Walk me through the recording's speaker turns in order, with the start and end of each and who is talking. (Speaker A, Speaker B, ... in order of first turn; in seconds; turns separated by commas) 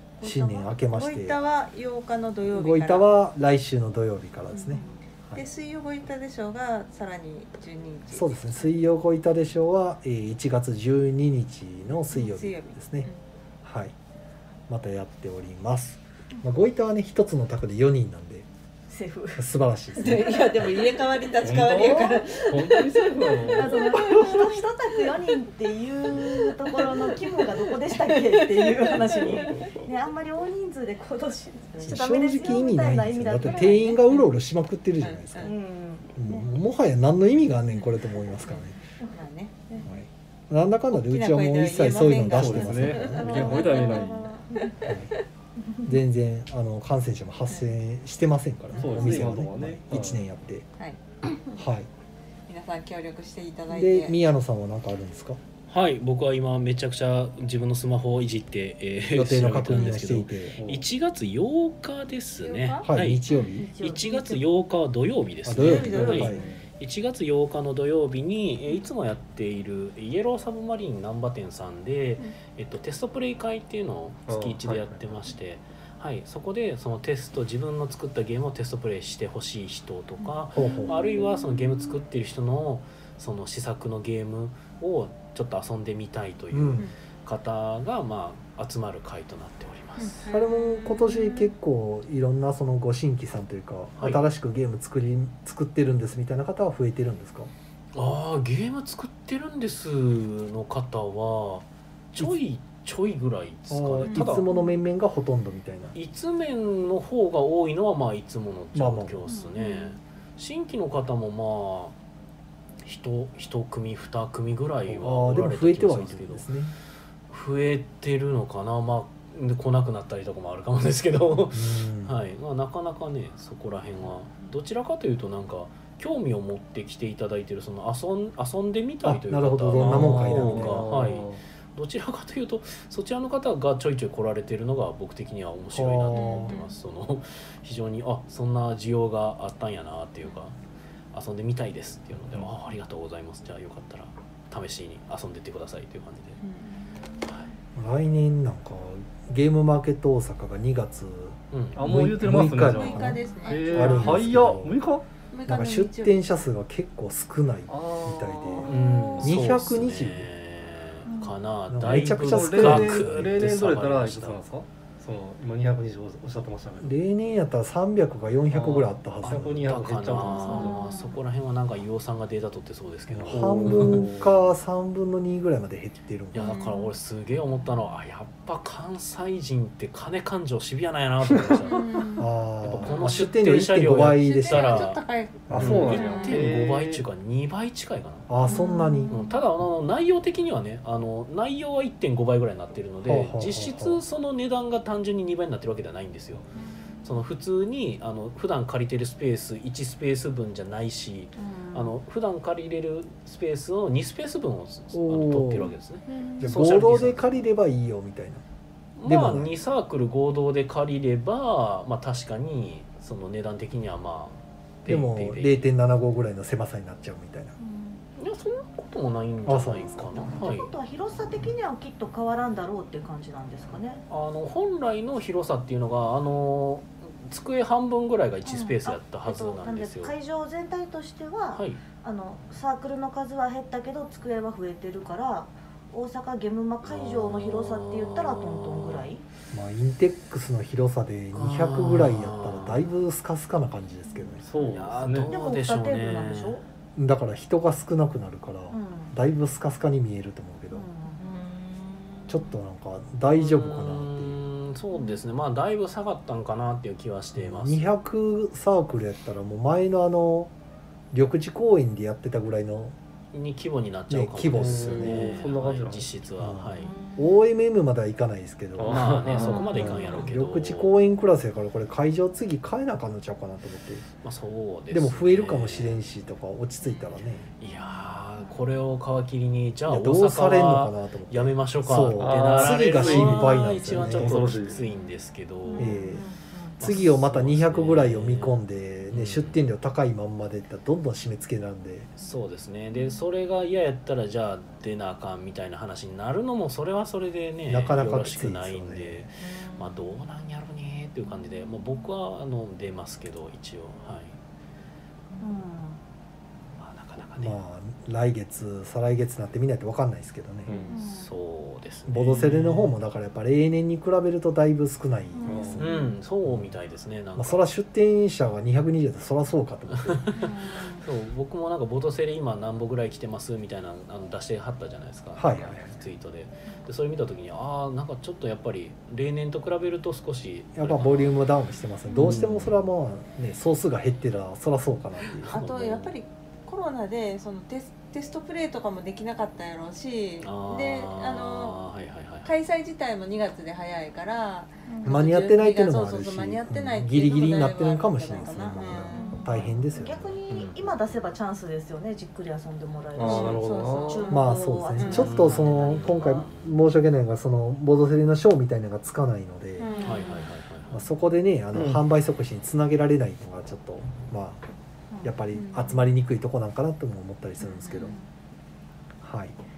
Speaker A: 0.2-3.1, Speaker B: 0.2-1.4, Speaker B: 2.5-5.4, Speaker A: 4.5-4.8, Speaker A: 5.3-8.5, Speaker B: 8.1-13.1, Speaker A: 12.1-13.2, Speaker B: 13.6-13.9, Speaker B: 14.7-18.4, Speaker C: 18.9-19.4, Speaker B: 19.3-20.7, Speaker A: 20.0-25.1, Speaker D: 21.4-24.6, Speaker C: 23.5-34.0, Speaker A: 26.1-29.7, Speaker D: 29.2-29.7, Speaker B: 31.8-35.5, Speaker A: 33.5-34.3, Speaker A: 35.0-35.5, Speaker C: 35.4-36.2, Speaker B: 36.1-38.8, Speaker A: 37.7-39.9, Speaker C: 39.0-39.3, Speaker B: 39.8-43.7, Speaker A: 40.9-45.2, Speaker D: 42.0-44.3, Speaker C: 43.6-44.0, Speaker B: 44.8-45.1, Speaker B: 45.8-50.7, Speaker A: 48.8-49.1, Speaker D: 48.8-50.2, Speaker B: 51.5-51.9, Speaker A: 52.5-54.1, Speaker B: 53.7-55.4, Speaker E: 55.7-90.2, Speaker B: 59.1-60.6, Speaker D: 60.6-60.9, Speaker A: 62.4-63.7, Speaker B: 62.8-63.7, Speaker C: 63.4-64.5, Speaker B: 65.4-66.4, Speaker A: 65.6-66.5, Speaker D: 65.8-66.7, Speaker D: 74.3-75.2, Speaker B: 80.5-81.0, Speaker A: 80.6-81.3, Speaker B: 86.5-86.9, Speaker A: 90.0-91.5, Speaker B: 90.3-97.5, Speaker E: 94.0-94.2, Speaker E: 97.9-104.5, Speaker B: 103.7-105.9, Speaker C: 104.1-104.8, Speaker E: 105.9-112.0, Speaker B: 108.7-109.2, Speaker C: 109.3-109.9, Speaker E: 112.8-116.5, Speaker B: 114.9-116.7, Speaker E: 117.3-140.5, Speaker B: 121.5-122.1, Speaker B: 129.0-130.8, Speaker D: 129.7-131.4, Speaker B: 135.7-136.5, Speaker A: 136.1-136.7, Speaker E: 141.1-146.4, Speaker A: 146.4-146.9, Speaker E: 147.2-147.5, Speaker B: 147.7-154.8, Speaker E: 151.5-151.9, Speaker D: 151.7-155.0, Speaker A: 152.6-154.2, Speaker A: 155.3-156.2, Speaker B: 155.5-160.3, Speaker D: 157.7-158.7, Speaker E: 158.6-164.4, Speaker A: 158.7-159.4, Speaker C: 161.1-161.3, Speaker B: 161.7-163.2, Speaker D: 161.9-167.0, Speaker B: 166.8-169.8, Speaker D: 168.5-170.8, Speaker E: 169.2-174.1, Speaker C: 170.4-171.2, Speaker B: 173.1-176.4, Speaker D: 173.2-174.4, Speaker E: 176.3-188.3, Speaker A: 176.3-176.9, Speaker A: 181.7-183.2, Speaker B: 182.2-186.0, Speaker A: 184.1-186.4, Speaker D: 185.5-187.0, Speaker B: 188.3-189.1, Speaker C: 188.4-189.1, Speaker E: 189.1-196.4, Speaker B: 193.0-194.0, Speaker E: 197.0-207.4, Speaker C: 201.3-202.0, Speaker B: 204.9-205.7, Speaker A: 206.1-206.4, Speaker B: 206.4-208.4, Speaker E: 209.0-215.7, Speaker B: 209.1-209.5, Speaker B: 214.9-217.5, Speaker C: 217.6-218.0, Speaker E: 218.2-220.7, Speaker B: 219.4-220.3, Speaker C: 220.3-224.0, Speaker E: 224.1-230.1, Speaker C: 228.4-239.2, Speaker E: 231.5-231.8, Speaker E: 236.8-239.1, Speaker B: 239.5-244.4, Speaker E: 241.3-242.9, Speaker D: 244.4-245.3, Speaker E: 244.6-246.6, Speaker C: 245.3-246.6, Speaker B: 246.9-250.8, Speaker C: 248.7-249.1, Speaker C: 250.7-252.0, Speaker B: 252.3-254.4, Speaker E: 253.3-257.9, Speaker B: 257.4-260.5, Speaker B: 261.1-262.9, Speaker E: 263.3-266.9, Speaker B: 264.1-265.3, Speaker D: 264.5-266.2, Speaker B: 266.4-274.1, Speaker C: 266.8-267.2, Speaker D: 268.8-269.8, Speaker E: 268.8-270.9, Speaker C: 269.4-270.2, Speaker E: 274.2-276.0, Speaker B: 274.9-277.5, Speaker E: 277.6-286.1, Speaker B: 279.9-284.4, Speaker D: 282.2-284.8, Speaker C: 285.6-286.8, Speaker B: 285.8-286.2, Speaker B: 286.8-292.1, Speaker E: 286.8-289.6, Speaker E: 292.2-304.4, Speaker B: 297.7-299.2, Speaker C: 299.4-300.0, Speaker C: 305.4-306.0, Speaker E: 306.8-307.6, Speaker B: 307.4-310.7, Speaker D: 310.6-310.9, Speaker E: 310.7-312.9, Speaker C: 310.9-311.3, Speaker B: 312.1-316.7, Speaker C: 315.3-316.1, Speaker D: 315.4-315.8, Speaker E: 315.8-317.7, Speaker B: 317.4-320.3, Speaker E: 319.9-331.4, Speaker C: 320.3-321.0, Speaker B: 325.3-325.8, Speaker B: 330.8-335.6, Speaker E: 332.1-332.7, Speaker E: 335.4-336.1, Speaker A: 335.5-341.8, Speaker E: 340.4-342.5, Speaker A: 342.4-349.4, Speaker C: 344.9-345.2, Speaker B: 345.0-350.4, Speaker C: 349.1-356.5, Speaker D: 350.5-350.8, Speaker E: 350.5-351.3, Speaker D: 353.1-354.3, Speaker A: 353.2-355.3, Speaker B: 354.3-359.9, Speaker E: 355.0-356.8, Speaker A: 359.8-360.4, Speaker E: 360.0-361.0, Speaker B: 360.9-364.6, Speaker D: 361.7-362.0, Speaker C: 365.1-365.4, Speaker B: 365.2-368.1, Speaker A: 365.5-366.0, Speaker A: 367.6-368.1, Speaker B: 369.2-369.6